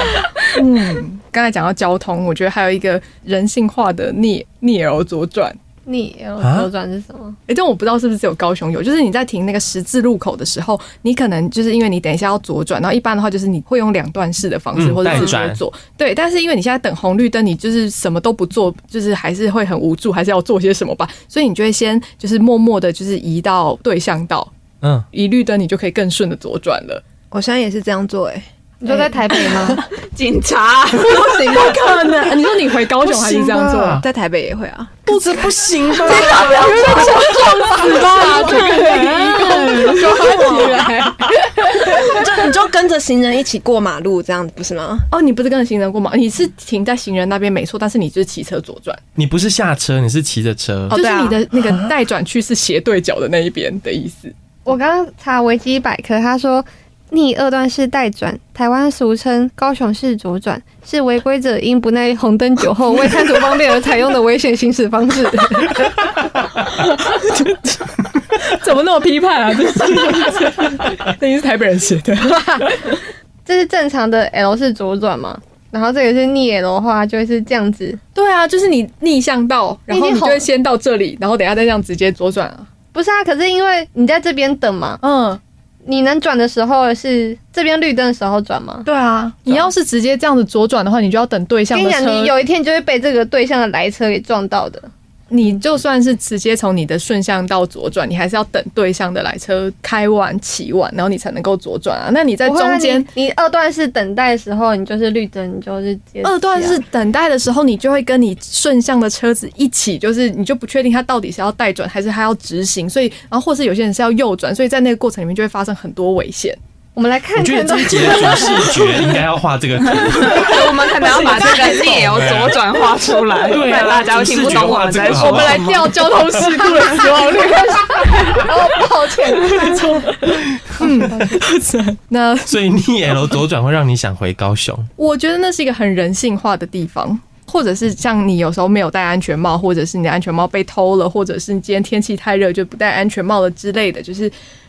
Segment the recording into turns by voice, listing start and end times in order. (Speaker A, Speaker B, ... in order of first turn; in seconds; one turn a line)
Speaker A: 0.5-5.6
Speaker B: 5.9-7.4
Speaker C: 6.4-6.7
Speaker A: 7.5-24.5
Speaker C: 14.8-15.6
Speaker C: 24.8-25.1
Speaker A: 25.1-27.0
Speaker D: 27.3-28.5
Speaker B: 28.8-29.8
Speaker A: 29.5-29.8
Speaker E: 29.9-31.6
Speaker A: 31.0-34.0
Speaker C: 33.0-34.0
Speaker D: 34.0-35.2
Speaker C: 35.1-37.3
Speaker A: 36.1-42.2
Speaker B: 36.1-41.3
Speaker E: 36.3-37.1
Speaker E: 38.2-39.2
Speaker D: 40.6-40.9
Speaker D: 41.9-45.1
Speaker A: 45.1-49.0
Speaker C: 49.2-51.0
Speaker D: 50.9-51.4
Speaker A: 50.9-54.3
Speaker B: 54.6-65.9
Speaker A: 66.7-73.0
Speaker B: 73.5-78.0
Speaker A: 78.2-82.7
Speaker B: 79.9-80.5
Speaker B: 82.9-85.0
Speaker A: 85.0-85.4
Speaker B: 85.8-88.9
Speaker A: 88.9-92.3
Speaker B: 91.7-94.9
Speaker A: 95.3-103.1
Speaker B: 102.5-106.8
Speaker A: 106.2-116.6
Speaker B: 117.0-118.8
Speaker C: 117.3-120.7
Speaker E: 120.1-126.1
Speaker A: 120.3-122.2
Speaker C: 122.0-122.5
Speaker C: 123.5-126.7
Speaker A: 123.6-132.6
Speaker B: 126.4-130.1
Speaker B: 130.8-131.4
Speaker C: 132.5-134.9
Speaker A: 135.0-144.3